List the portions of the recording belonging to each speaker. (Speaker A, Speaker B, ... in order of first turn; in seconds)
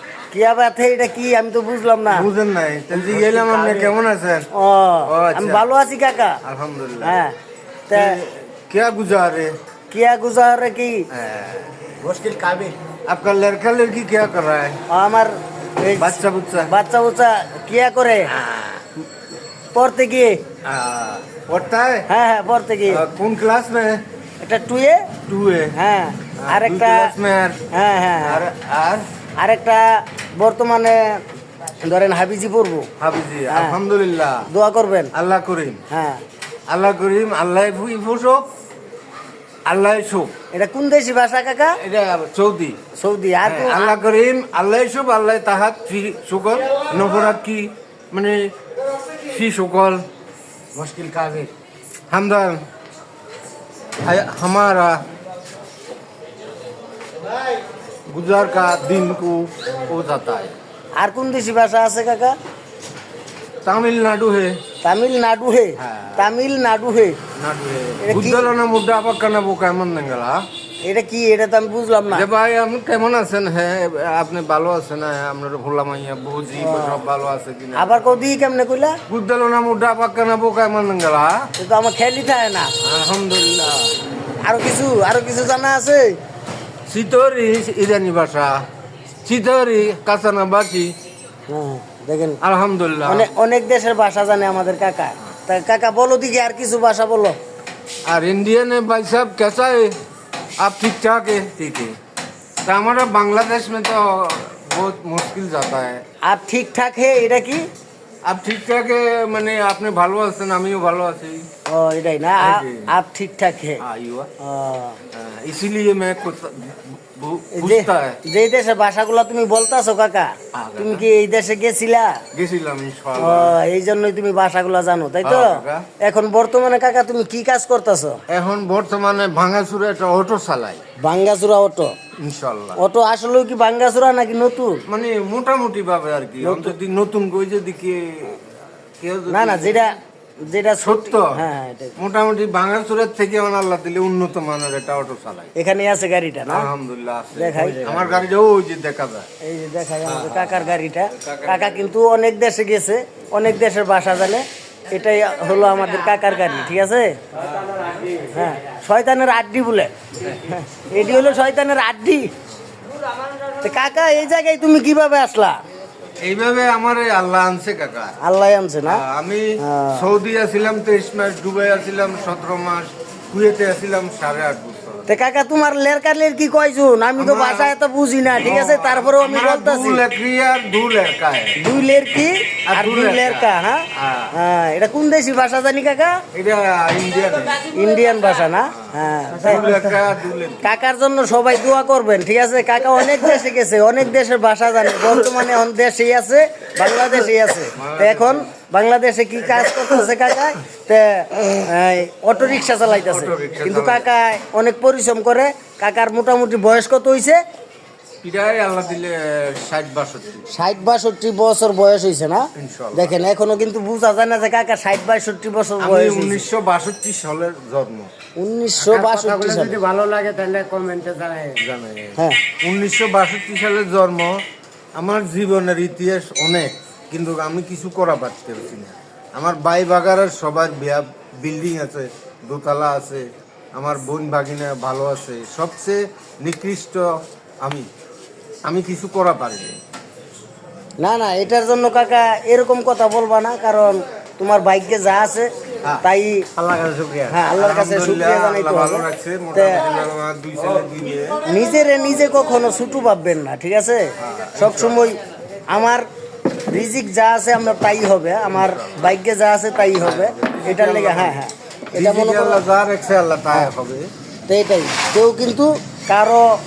Speaker A: 0.3-2.3, 2.9-3.9, 4.5-6.4, 7.0-7.3, 7.9-8.2, 9.9-11.1, 14.9-18.3, 19.7-20.4, 22.1-23.0, 24.4-25.1, 25.7-27.1, 27.7-28.4, 29.4-31.2, 31.8-32.9, 33.5-33.8, 34.5-35.1, 35.9-36.2, 40.5-41.8, 43.0-44.0, 61.0-62.4, 64.8-67.2, 68.0-68.5, 70.8-72.3, 76.6-77.0, 77.7-79.0, 81.6-82.7, 84.4-86.2, 91.5-92.4, 93.0-97.4, 106.2-107.6, 111.7-113.8, 114.4-115.0, 117.5-122.2, 123.2-128.2, 131.0-131.9, 132.8-134.8, 136.4-136.7, 139.3-142.0, 145.5-146.7, 147.3-147.9, 149.4-157.2, 158.3-162.3, 163.6-165.6, 168.2-169.0, 169.6-170.1, 175.1-180.0, 181.6-186.2, 187.6-189.7, 190.6-207.4, 210.5-216.4, 218.4-219.8, 241.0-245.5, 246.0-246.5, 247.3-249.9, 251.4-256.0, 256.7-262.6, 264.5-266.5
Speaker B: 2.1-4.5, 5.0-5.6, 6.4-7.2, 7.9-9.5, 11.1-14.8, 15.9-16.7, 18.3-18.9, 20.6-22.1, 22.9-24.0, 25.2-25.8, 26.4-27.7, 28.2-29.1, 33.0-34.5, 35.1-35.8, 36.7-38.5, 39.6-40.3, 41.8-42.8, 43.4-48.5, 49.1-50.0, 50.7-51.5, 52.1-52.6, 54.0-55.0, 58.1-60.5, 63.6-64.6, 65.8-66.3, 67.3-70.4, 72.1-78.0, 79.1-81.5, 82.8-83.9, 86.9-88.6, 89.2-90.9, 92.4-93.3, 98.0-100.0, 100.6-102.0, 102.6-106.0, 108.2-111.5, 112.4-112.9, 113.8-114.3, 115.1-118.2, 120.5-121.1, 122.3-123.6, 125.2-125.9, 128.3-130.8, 132.2-132.8, 134.9-138.4, 139.0-139.9, 140.8-141.4, 142.0-145.5, 146.5-149.3, 150.0-151.7, 166.2-168.2, 168.8-175.1, 177.2-177.7, 178.3-181.6, 182.7-184.3, 186.3-187.6, 188.8-190.7, 197.7-198.5, 202.9-204.1, 208.2-210.5, 212.5-213.2, 215.8-218.1, 221.6-224.4, 224.9-237.1, 237.6-237.9, 238.7-239.8, 247.5-251.4, 254.2-255.1, 258.5-259.1, 259.9-264.1
Speaker C: 12.2-12.6, 157.5-158.3, 218.8-221.6, 246.6-247.4